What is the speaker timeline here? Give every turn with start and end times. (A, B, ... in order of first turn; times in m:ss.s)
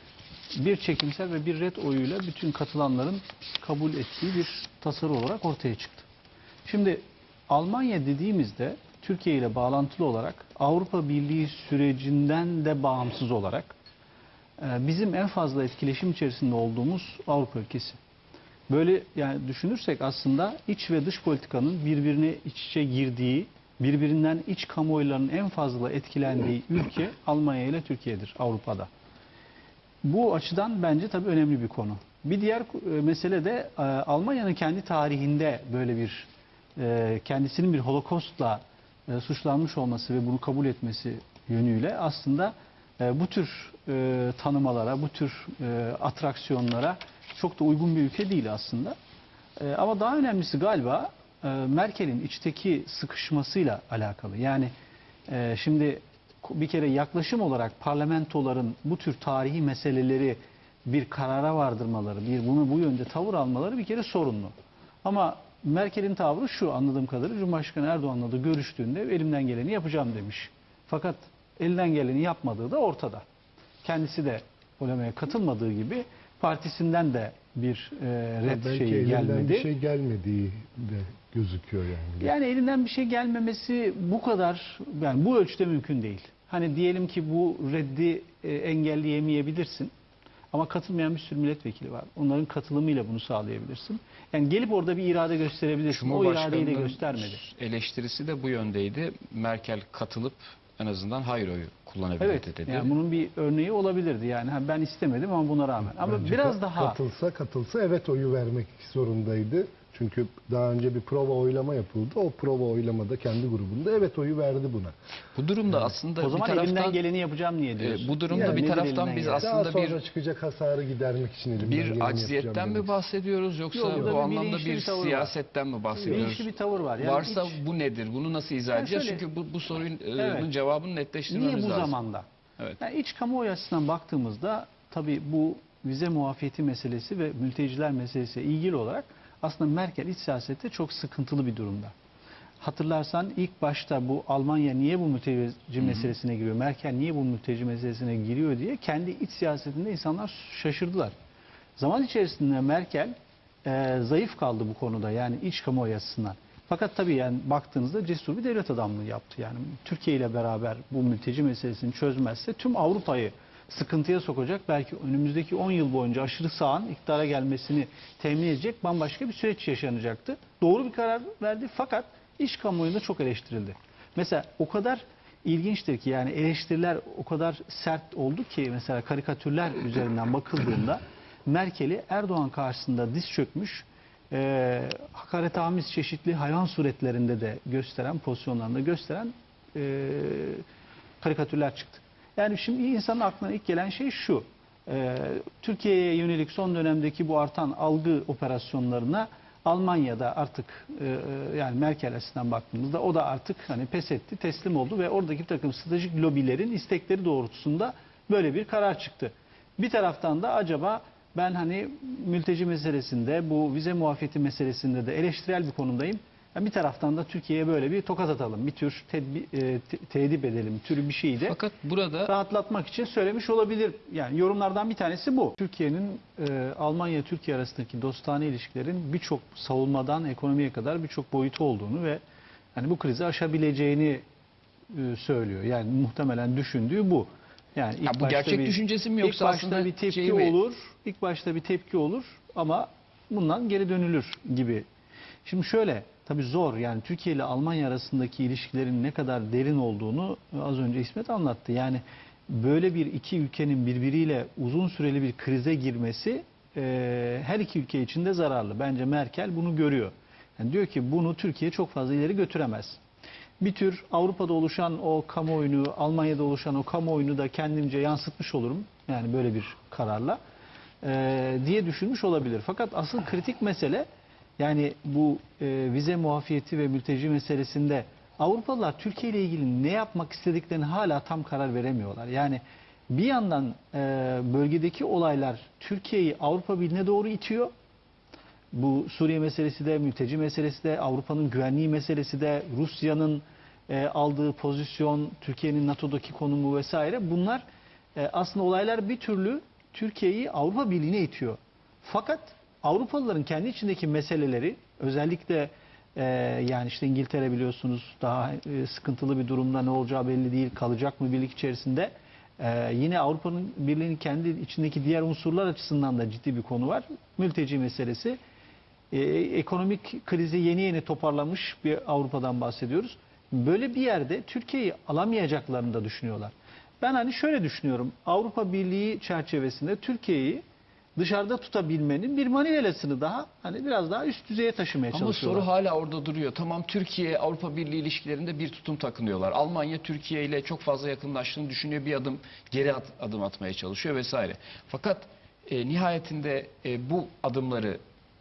0:00.6-0:06.1 A
0:06.6-0:13.8 A
0:14.6-0:18.0 A
0:18.7-0:28.9 A
0:30.0-0:49.0 A
0:49.6-0:54.7 A
0:55.3-1:13.2 A
1:13.8-1:19.7 A
1:18.5-1:22.3 B
1:22.2-1:29.9 A
1:30.5-1:37.4 A
1:35.9-1:42.9 C
1:42.2-1:47.0 A
1:45.9-1:55.0 B
1:55.4-1:57.0 C
1:56.2-1:59.5 A
1:57.8-2:00.0 C
1:58.3-1:58.7 B
1:59.4-2:03.0 B
2:01.6-2:12.0 C
2:03.7-2:05.3 A
2:06.0-2:07.6 A
2:08.7-2:09.2 A
2:10.2-2:10.5 A
2:11.3-2:12.3 A
2:12.8-2:21.9 A
2:22.6-2:31.1 A
2:25.8-2:26.1 C
2:31.8-3:10.6 A
3:11.2-3:41.6 A
3:41.4-3:42.3 C
3:42.3-3:52.2 A
3:52.8-3:54.2 A
3:54.9-4:04.8 A
3:58.0-4:00.6 C
4:05.4-4:23.0 A
4:23.6-4:30.4 A
4:31.0-4:34.1 A
4:34.6-4:47.7 A
4:48.7-4:57.6 A
4:58.2-5:18.4 A
5:19.1-5:30.6 A
5:31.2-5:35.7 A
5:35.1-5:48.0 C